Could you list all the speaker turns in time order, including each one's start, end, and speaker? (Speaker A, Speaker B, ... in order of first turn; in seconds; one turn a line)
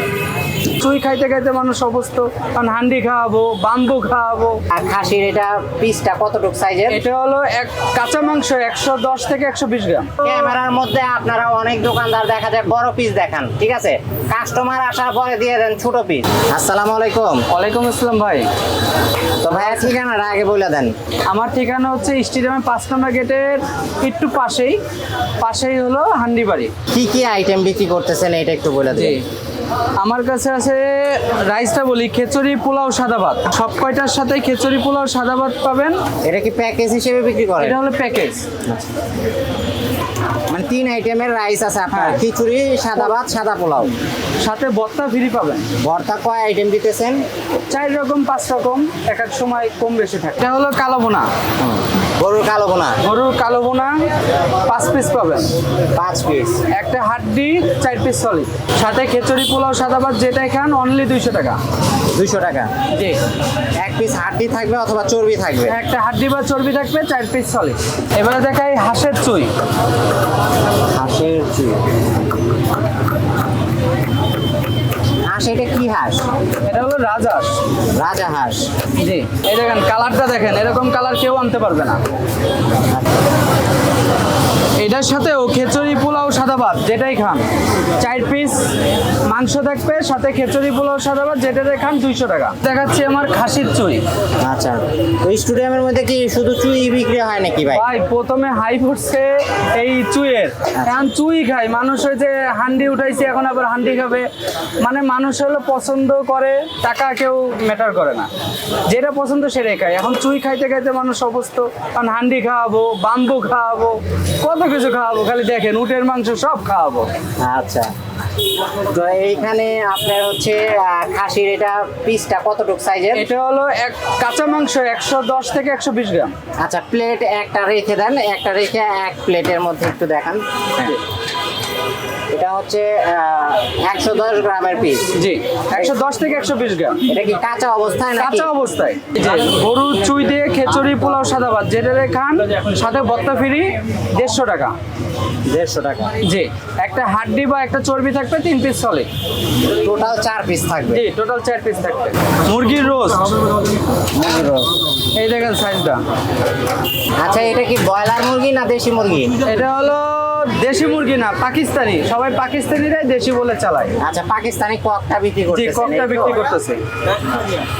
Speaker A: 0.8-4.6
Speaker B: 4.7-7.0
Speaker A: 6.9-10.4
Speaker B: 10.2-17.4
Speaker A: 17.5-18.5
Speaker B: 19.4-20.9
Speaker A: 21.3-24.8
Speaker A: 25.4-26.7
Speaker B: 26.9-29.2
Speaker A: 28.9-29.2
Speaker A: 30.0-36.0
Speaker B: 36.3-37.8
Speaker A: 37.6-38.5
Speaker B: 40.5-43.9
Speaker A: 41.9-42.2
Speaker A: 44.4-45.7
Speaker B: 45.8-47.2
Speaker A: 47.7-51.3
Speaker B: 51.6-53.0
Speaker A: 53.0-54.0
Speaker A: 54.7-55.5
Speaker B: 56.0-56.6
Speaker A: 56.7-61.6
Speaker B: 62.1-62.7
Speaker A: 62.9-63.2
Speaker B: 63.8-65.8
Speaker A: 65.7-69.5
Speaker B: 70.9-71.8
Speaker B: 75.3-76.2
Speaker A: 76.6-77.6
Speaker B: 78.0-78.7
Speaker A: 78.9-82.0
Speaker A: 84.8-87.5
Speaker A: 88.0-88.7
Speaker A: 89.3-94.0
Speaker B: 94.4-97.8
Speaker A: 97.7-104.3
Speaker B: 100.8-101.1
Speaker A: 104.8-108.3
Speaker A: 108.9-117.1
Speaker B: 117.4-117.9
Speaker B: 118.8-123.3
Speaker A: 123.1-126.3
Speaker B: 126.6-131.0
Speaker B: 132.3-135.0
Speaker A: 135.2-137.0
Speaker B: 137.1-138.5
Speaker A: 138.2-144.7
Speaker B: 140.9-141.1
Speaker B: 145.5-146.2
Speaker A: 146.2-149.1
Speaker B: 149.7-151.0
Speaker A: 150.9-153.3
Speaker B: 154.1-154.8
Speaker A: 155.2-156.0
Speaker B: 157.2-159.3
Speaker A: 159.4-163.9
Speaker B: 164.0-166.4
Speaker A: 165.5-166.8
Speaker B: 167.3-167.6